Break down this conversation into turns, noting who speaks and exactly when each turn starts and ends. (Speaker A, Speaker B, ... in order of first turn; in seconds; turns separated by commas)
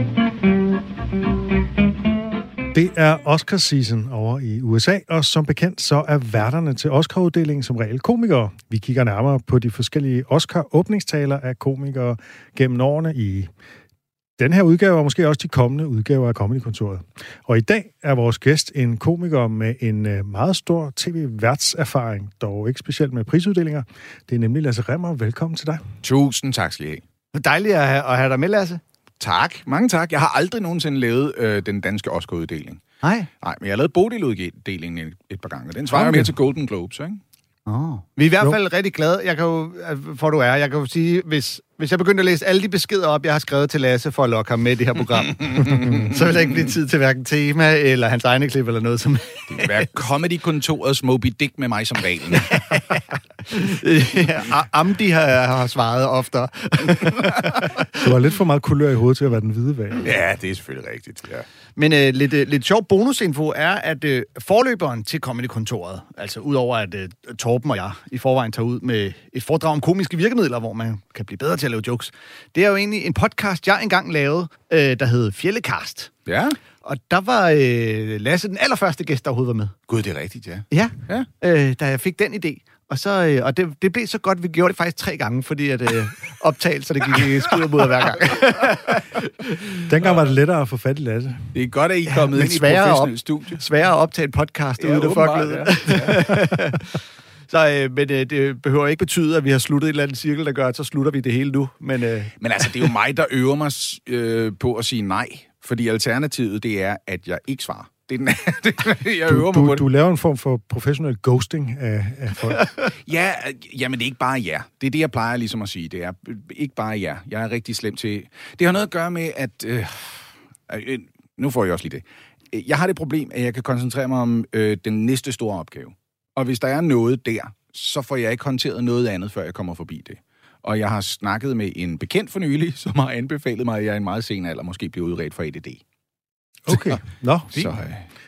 Speaker A: 2.7-13.5, Speaker A: 14.4-25.8, Speaker B: 26.0-27.0, Speaker C: 27.3-28.8, Speaker B: 29.2-32.8, Speaker C: 33.0-33.3, Speaker B: 33.4-37.2, Speaker C: 35.9-36.3, Speaker C: 37.7-49.7, Speaker B: 49.5-52.8, Speaker C: 52.5-57.9, Speaker A: 58.0-60.1, Speaker B: 60.0-61.5, Speaker C: 61.8-76.1, Speaker B: 76.3-76.6, Speaker C: 76.8-79.8, Speaker B: 79.9-81.3, Speaker C: 80.7-89.9, Speaker A: 89.8-91.5, Speaker B: 91.5-93.6, Speaker C: 92.1-97.0, Speaker B: 94.8-96.3, Speaker C: 97.5-102.9, Speaker B: 102.4-109.9, Speaker A: 109.3-112.7, Speaker B: 113.1-135.8, Speaker A: 136.7-137.8, Speaker B: 136.7-137.0, Speaker B: 137.5-138.1